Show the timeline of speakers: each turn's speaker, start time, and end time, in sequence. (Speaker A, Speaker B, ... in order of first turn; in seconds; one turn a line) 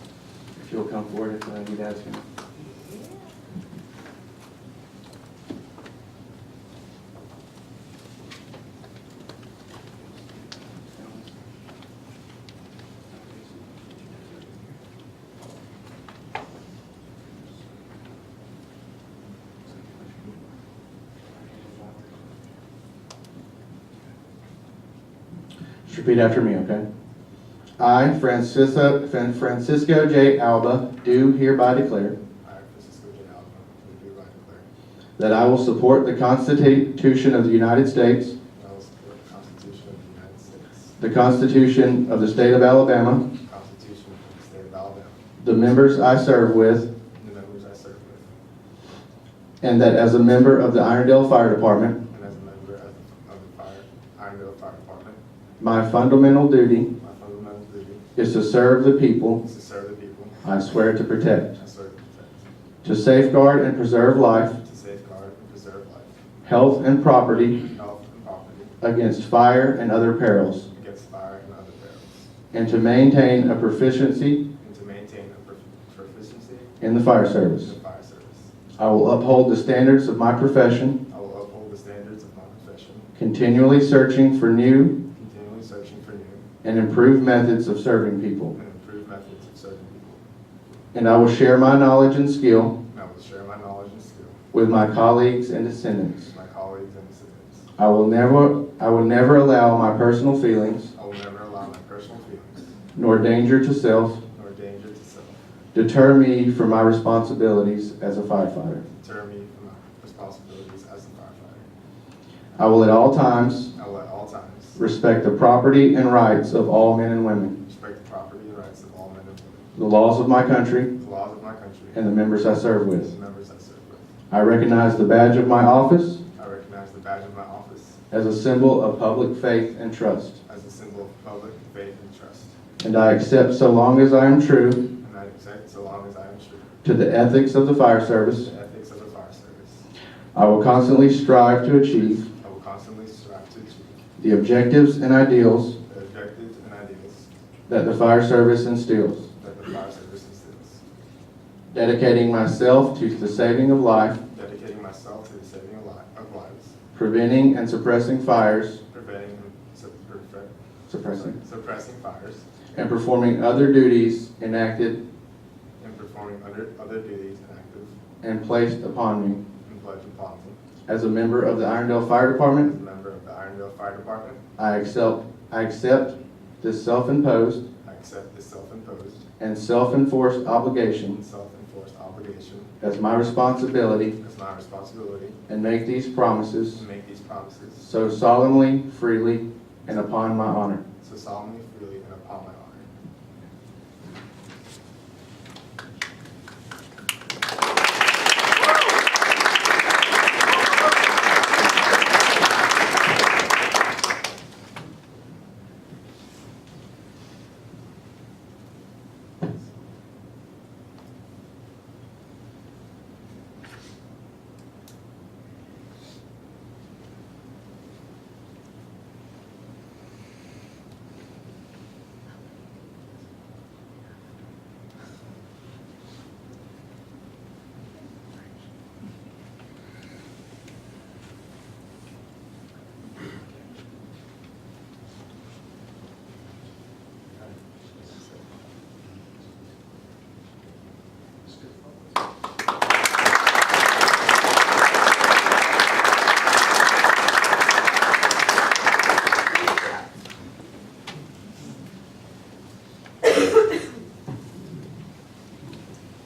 Speaker A: 0.6-2.2
Speaker A: 10.9-11.3
Speaker A: 13.1-13.9
Speaker A: 25.9-26.9
Speaker A: 27.8-32.1
Speaker B: 32.4-34.6
Speaker A: 35.2-38.4
Speaker B: 38.5-41.0
Speaker A: 41.0-43.2
Speaker B: 43.5-45.2
Speaker A: 45.4-46.9
Speaker B: 47.2-48.3
Speaker A: 49.6-52.0
Speaker B: 52.1-55.2
Speaker A: 55.6-56.9
Speaker B: 57.0-58.0
Speaker A: 58.2-59.4
Speaker B: 59.4-60.4
Speaker A: 60.4-61.5
Speaker B: 61.6-62.4
Speaker A: 62.8-64.6
Speaker B: 64.6-66.2
Speaker A: 66.4-67.6
Speaker B: 67.5-68.7
Speaker A: 68.8-70.7
Speaker B: 70.7-72.3
Speaker A: 72.5-74.4
Speaker B: 74.6-76.8
Speaker A: 76.8-77.7
Speaker B: 77.6-78.5
Speaker A: 78.8-81.0
Speaker B: 81.1-83.1
Speaker A: 83.2-84.9
Speaker B: 85.2-86.4
Speaker A: 86.6-88.5
Speaker B: 88.5-90.2
Speaker A: 90.9-92.7
Speaker B: 92.9-94.4
Speaker A: 94.5-96.3
Speaker B: 96.3-97.7
Speaker A: 97.8-100.9
Speaker B: 100.9-102.8
Speaker A: 102.9-104.2
Speaker B: 104.3-105.4
Speaker A: 105.7-108.8
Speaker B: 109.0-111.7
Speaker A: 112.6-113.7
Speaker B: 113.8-114.8
Speaker A: 114.8-117.5
Speaker B: 117.7-119.7
Speaker A: 119.8-120.9
Speaker B: 121.0-122.0
Speaker A: 121.9-123.1
Speaker B: 123.0-124.1
Speaker A: 124.3-126.2
Speaker B: 126.3-128.0
Speaker A: 128.1-130.4
Speaker B: 130.5-132.5
Speaker A: 132.8-134.8
Speaker B: 135.0-136.7
Speaker A: 136.8-138.5
Speaker B: 138.4-139.8
Speaker A: 140.3-142.2
Speaker B: 142.2-144.0
Speaker A: 144.2-145.8
Speaker B: 145.9-147.3
Speaker A: 147.7-149.3
Speaker B: 149.4-150.8
Speaker A: 151.7-154.2
Speaker B: 154.3-156.8
Speaker A: 156.9-158.8
Speaker B: 158.9-160.5
Speaker A: 160.9-161.4
Speaker B: 161.1-162.4
Speaker A: 162.7-165.0
Speaker B: 165.8-167.9
Speaker A: 168.2-169.4
Speaker B: 169.6-170.6
Speaker A: 170.9-172.7
Speaker B: 172.6-174.4
Speaker A: 174.6-177.6
Speaker B: 177.8-179.2
Speaker A: 179.4-181.2
Speaker B: 181.1-182.7
Speaker A: 182.8-184.1
Speaker B: 184.2-185.4
Speaker A: 185.5-186.8
Speaker B: 186.7-187.8
Speaker A: 187.8-190.8
Speaker B: 191.0-192.9